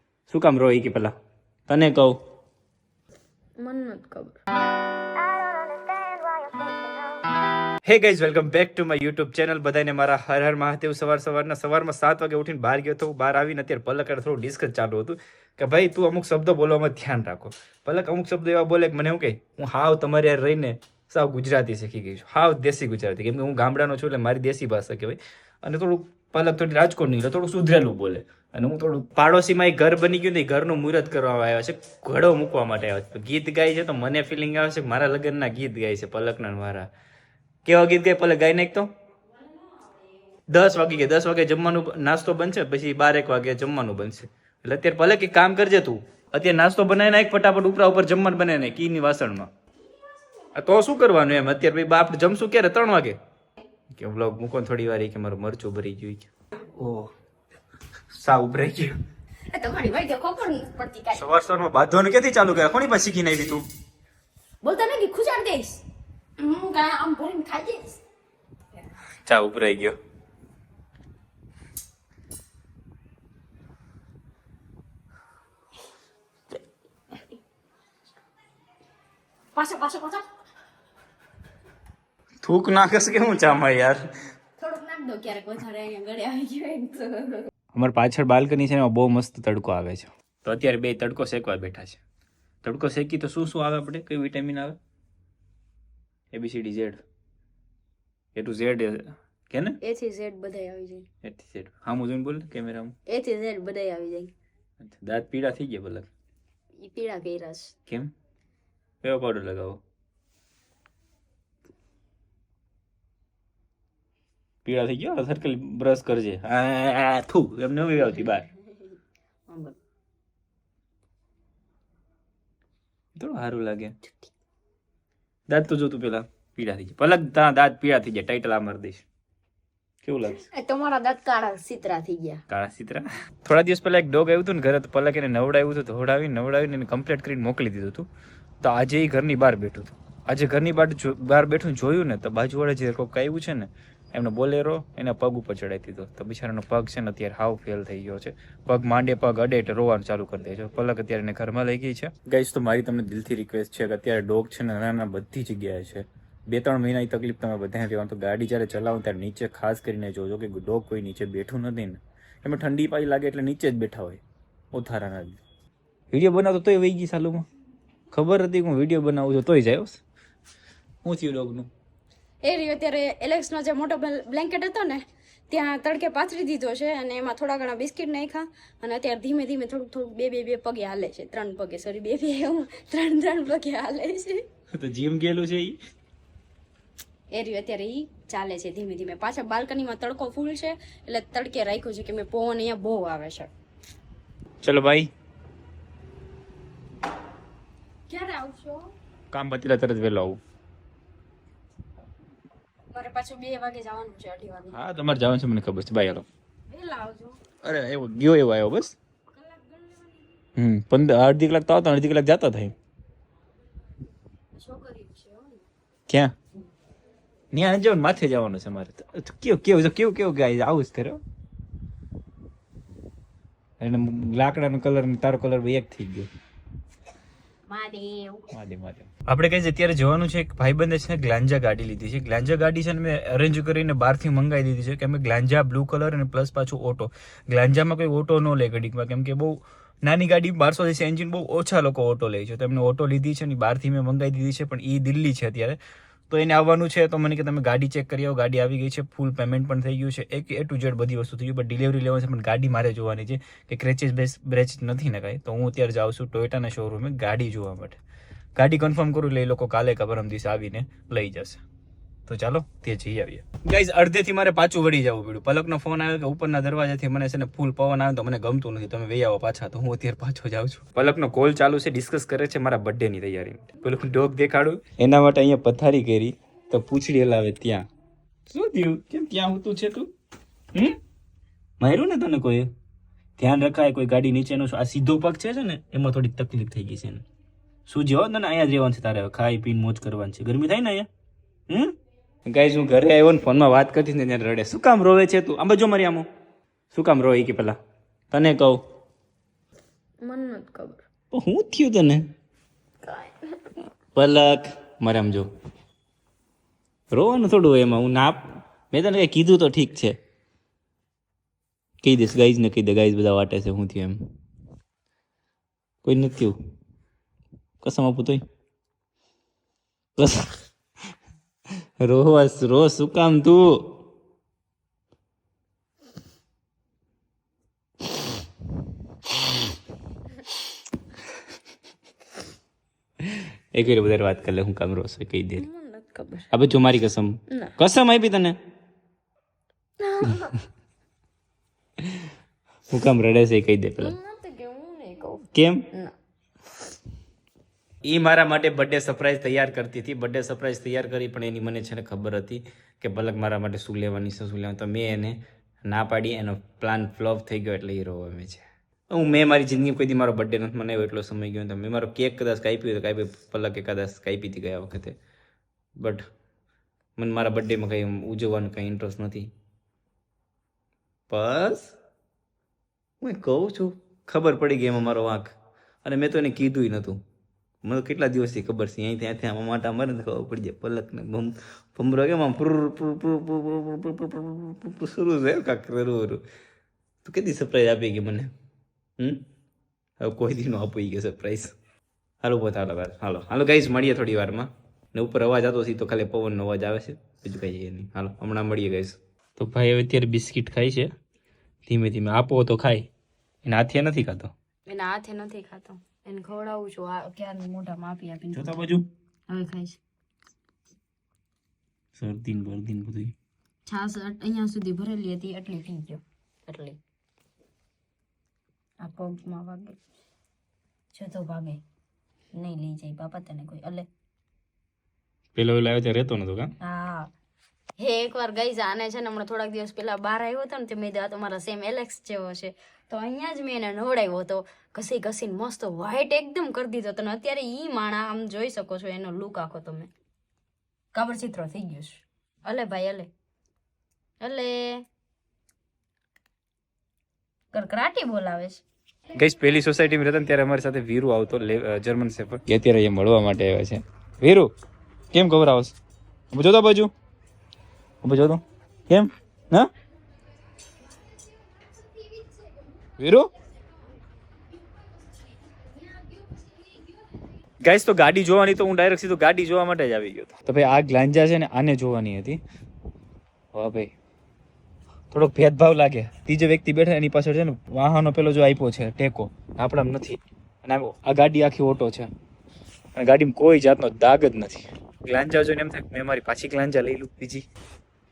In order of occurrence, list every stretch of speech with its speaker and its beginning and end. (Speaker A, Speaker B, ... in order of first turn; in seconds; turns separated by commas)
Speaker A: 0.3-1.1, Speaker A: 1.7-2.2, Speaker B: 3.6-4.4, Speaker B: 5.0-7.3, Speaker A: 7.8-36.9, Speaker A: 37.6-38.9, Speaker A: 40.5-49.5, Speaker A: 50.5-53.2, Speaker A: 53.9-57.1, Speaker A: 58.1-59.0, Speaker B: 59.5-61.3, Speaker A: 61.2-63.6, Speaker B: 64.6-65.8, Speaker B: 66.4-68.0, Speaker A: 69.2-70.0, Speaker B: 79.5-80.2, Speaker A: 82.4-84.0, Speaker B: 84.6-87.5, Speaker A: 87.7-92.0, Speaker A: 92.6-94.8, Speaker A: 96.3-97.0, Speaker A: 98.3-99.8, Speaker B: 99.8-101.1, Speaker A: 101.2-103.0, Speaker B: 103.1-104.3, Speaker A: 104.8-106.1, Speaker B: 106.8-107.7, Speaker A: 109.0-109.8, Speaker A: 114.6-118.5, Speaker B: 119.5-119.8, Speaker A: 123.2-124.0, Speaker A: 125.5-129.0, Speaker A: 130.0-130.5, Speaker B: 130.3-132.4, Speaker A: 132.5-138.1, Speaker A: 138.6-164.2, Speaker A: 164.7-165.4, Speaker A: 166.1-167.5, Speaker A: 168.1-170.0, Speaker A: 171.0-171.7, Speaker B: 172.4-184.4, Speaker A: 184.7-185.8, Speaker B: 187.3-193.5, Speaker A: 194.6-195.1, Speaker B: 198.1-198.9, Speaker A: 199.3-200.4, Speaker B: 202.9-204.8, Speaker A: 204.7-206.2, Speaker B: 206.7-207.4, Speaker A: 207.6-208.9, Speaker B: 209.3-210.2, Speaker A: 210.6-212.7, Speaker B: 214.6-215.7, Speaker A: 217.5-221.2, Speaker A: 223.8-226.3, Speaker B: 227.7-228.5, Speaker A: 228.5-258.0, Speaker A: 258.6-261.6, Speaker A: 262.2-277.9, Speaker A: 278.5-280.1, Speaker A: 280.7-281.0, Speaker A: 281.8-282.7, Speaker A: 283.4-287.2, Speaker A: 287.9-291.1, Speaker A: 291.7-296.3, Speaker A: 296.9-297.8, Speaker A: 298.3-298.8, Speaker B: 300.2-301.0, Speaker A: 301.3-302.2, Speaker B: 303.0-303.8, Speaker A: 304.1-305.5, Speaker A: 307.1-310.2, Speaker A: 312.0-314.3, Speaker A: 316.0-316.6, Speaker A: 317.8-318.4, Speaker A: 320.2-320.6, Speaker A: 322.0-324.0, Speaker A: 333.2-335.7, Speaker B: 335.6-336.5, Speaker A: 336.5-338.6, Speaker B: 337.5-337.8, Speaker B: 340.0-340.6, Speaker A: 342.9-344.1, Speaker B: 344.0-346.1, Speaker A: 345.5-345.9, Speaker A: 348.0-365.2, Speaker A: 366.0-366.2, Speaker A: 367.2-369.5, Speaker A: 371.3-371.9, Speaker A: 373.2-377.2, Speaker A: 377.8-386.4, Speaker A: 387.2-388.5, Speaker A: 389.2-389.4, Speaker A: 390.2-391.7, Speaker A: 392.4-401.1, Speaker A: 401.9-403.1, Speaker A: 403.6-404.5, Speaker B: 404.9-408.8, Speaker A: 408.5-409.1, Speaker B: 409.5-410.0, Speaker A: 412.1-413.3, Speaker B: 413.9-417.0, Speaker B: 419.0-420.0, Speaker B: 421.1-421.8, Speaker B: 422.6-424.1, Speaker A: 425.5-426.7, Speaker B: 426.8-427.3, Speaker B: 428.0-440.1, Speaker B: 441.1-443.3, Speaker B: 444.4-445.0, Speaker B: 447.7-448.8, Speaker A: 449.3-454.7, Speaker A: 455.3-455.9, Speaker A: 456.5-457.1, Speaker A: 458.2-459.9, Speaker B: 462.2-462.5, Speaker A: 463.2-463.5, Speaker B: 466.0-467.0, Speaker A: 467.8-472.6, Speaker A: 473.7-474.1, Speaker A: 475.3-482.3, Speaker A: 483.1-487.6